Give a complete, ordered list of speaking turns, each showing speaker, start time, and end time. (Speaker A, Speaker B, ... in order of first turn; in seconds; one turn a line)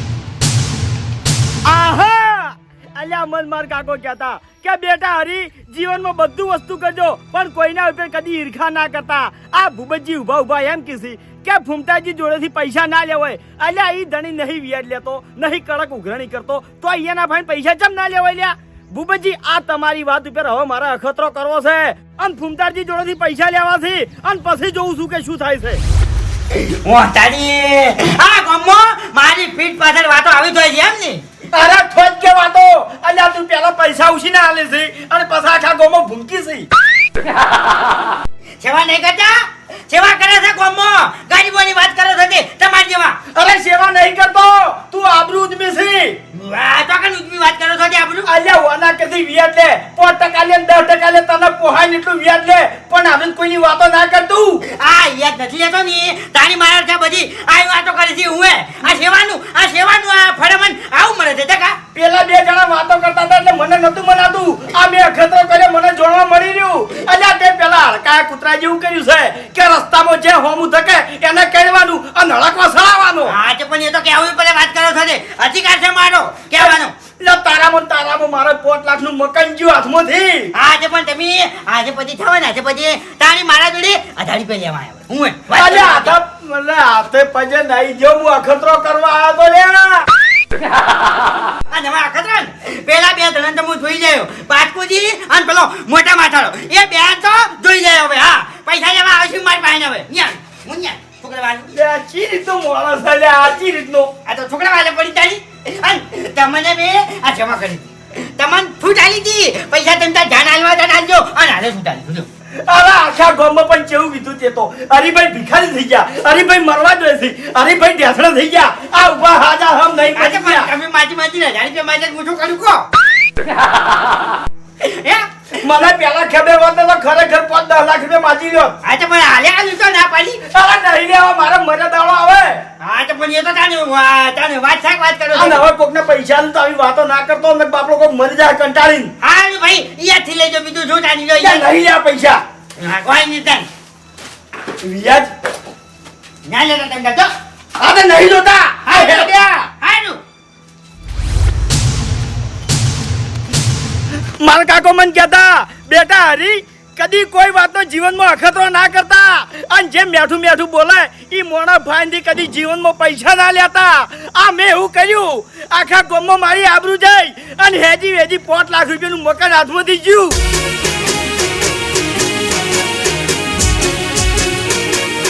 Speaker A: 1.6-25.8
Speaker B: 26.5-31.2
Speaker A: 31.5-36.7
Speaker B: 38.6-43.2
Speaker A: 43.3-46.2
Speaker B: 46.3-48.3
Speaker A: 48.2-54.6
Speaker B: 54.7-61.8
Speaker A: 61.9-73.3
Speaker B: 73.3-76.9
Speaker A: 76.6-80.5
Speaker B: 80.5-86.1
Speaker A: 85.5-90.1
Speaker B: 91.7-101.7
Speaker A: 101.7-104.1
Speaker B: 104.2-112.3
Speaker A: 112.7-120.7
Speaker B: 120.1-122.8
Speaker B: 124.8-125.3
Speaker A: 125.6-128.8
Speaker B: 128.8-130.4
Speaker A: 130.5-132.6
Speaker B: 132.8-135.6
Speaker A: 135.3-139.1
Speaker B: 139.2-141.7
Speaker A: 141.4-142.4
Speaker B: 142.8-143.7
Speaker A: 144.8-145.3
Speaker B: 146.4-147.3
Speaker A: 147.8-149.6
Speaker B: 148.8-150.2
Speaker A: 154.4-170.3